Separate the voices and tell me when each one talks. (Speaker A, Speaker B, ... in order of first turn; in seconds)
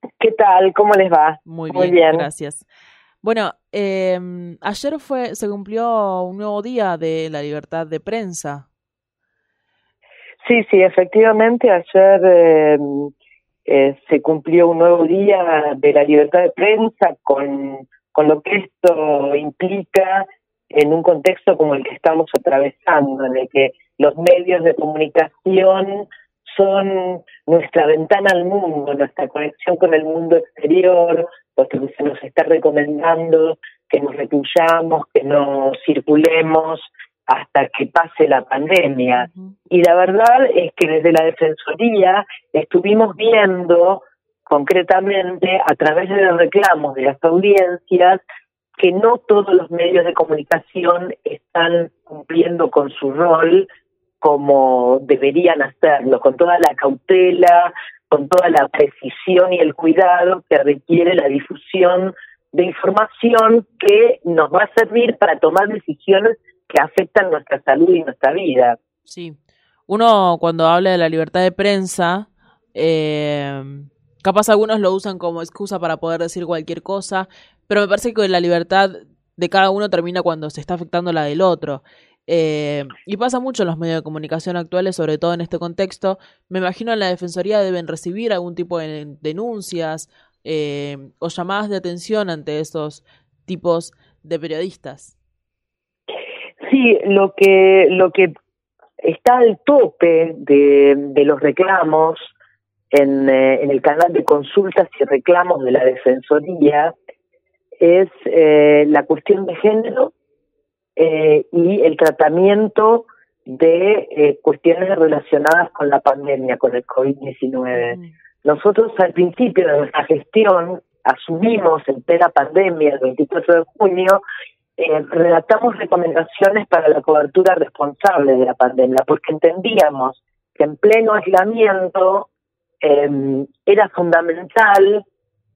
Speaker A: 0.2-2.3, 10.4-13.1, 13.7-48.2, 48.8-53.7, 54.2-68.8, 96.6-98.3, 99.0-102.3, 102.9-106.9, 107.8-110.1, 111.0-124.2, 124.8-132.3, 132.8-135.0
Speaker B: 1.4-2.6, 3.2-8.7, 39.1-39.5, 69.0-95.1, 117.7-118.1